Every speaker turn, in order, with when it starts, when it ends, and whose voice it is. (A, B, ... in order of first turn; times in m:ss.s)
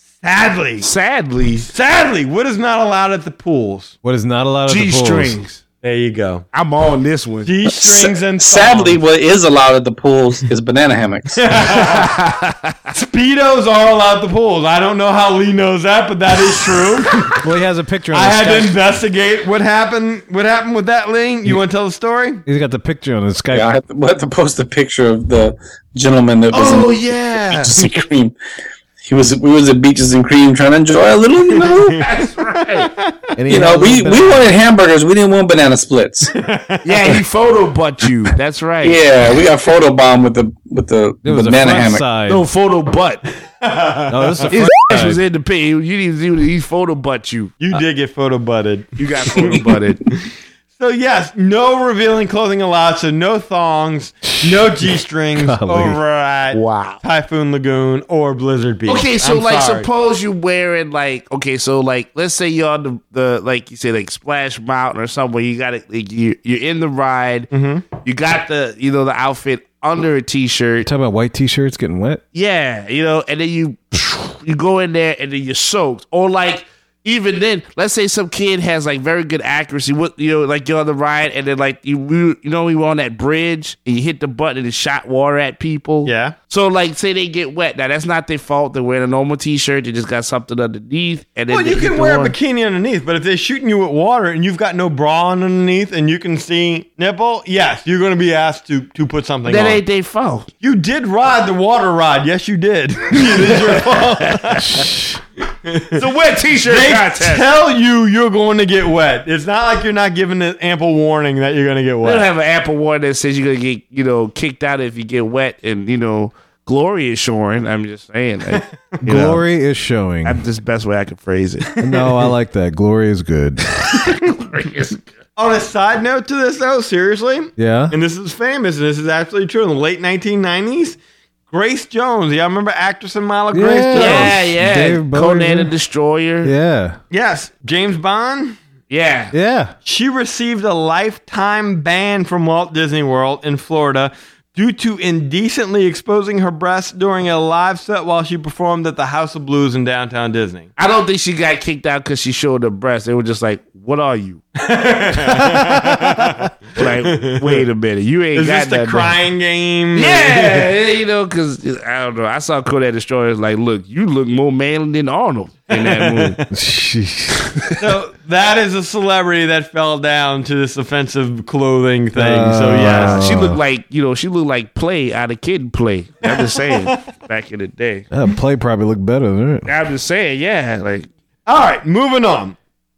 0:00.2-0:00.9 A
0:00.8-0:01.7 B
0:01.7-0:03.9 A
0:04.0-0:05.4 C
0:04.7-0:05.6 B
0:05.8-0:06.4 A
0:06.5-0:07.5 B
0:07.4-0:09.0 A
0:07.6-0:11.5 D
0:11.4-0:12.2 A
0:11.8-0:12.8 B
0:12.9-0:17.3 A
0:17.4-0:18.8 C
0:18.1-0:22.4 A
0:22.4-0:23.7 C
0:23.5-0:28.3 D
0:26.5-0:28.0 B
0:29.0-0:32.0 D
0:31.5-0:32.1 A
0:32.0-0:32.9 B
0:32.7-0:33.2 A
0:33.4-0:34.5 C
0:33.5-0:36.4 D
0:36.3-0:37.1 A
0:36.8-0:39.0 B
0:38.8-0:42.0 D
0:41.2-0:42.4 C
0:42.3-0:43.2 B
0:43.6-0:44.5 A
0:44.1-0:45.2 C
0:44.5-0:47.5 B
0:47.6-0:59.9 A
0:49.0-0:50.0 B
0:54.3-0:54.6 C
0:55.4-0:56.0 C
0:56.5-0:57.0 B
0:58.8-1:07.5 B
1:07.5-1:07.8 A
1:08.0-1:10.9 B
1:10.8-1:12.2 C
1:12.3-1:32.4 B
1:26.0-1:26.4 A
1:31.5-1:39.8 A
1:39.4-1:40.5 B
1:40.6-1:44.9 A
1:43.5-1:44.8 B
1:44.6-1:45.2 C
1:45.6-1:52.3 A
1:45.9-1:47.5 B
1:52.0-1:59.4 B
1:58.5-1:59.0 A
1:59.0-2:00.4 C
2:00.2-2:01.7 B
2:01.8-2:03.7 C
2:03.8-2:05.1 B
2:05.4-2:11.0 A
2:07.6-2:07.9 C
2:11.5-2:14.4 A
2:13.5-2:15.7 C
2:13.9-2:16.5 B
2:16.4-2:17.0 C
2:17.1-2:18.6 A
2:18.9-2:19.3 B
2:19.3-2:19.7 C
2:19.8-2:30.7 A
2:30.8-2:34.4 B
2:34.6-2:37.6 A
2:35.2-2:36.4 C
2:36.8-2:39.1 B
2:38.3-2:40.7 A
2:39.9-2:46.4 B
2:45.7-2:46.5 A
2:46.5-2:47.5 C
2:47.8-2:53.2 A
2:52.2-2:53.6 C
2:52.8-2:58.0 B
2:56.2-2:57.0 A
2:58.1-2:59.7 C
2:59.6-3:01.1 B
3:01.4-3:02.6 A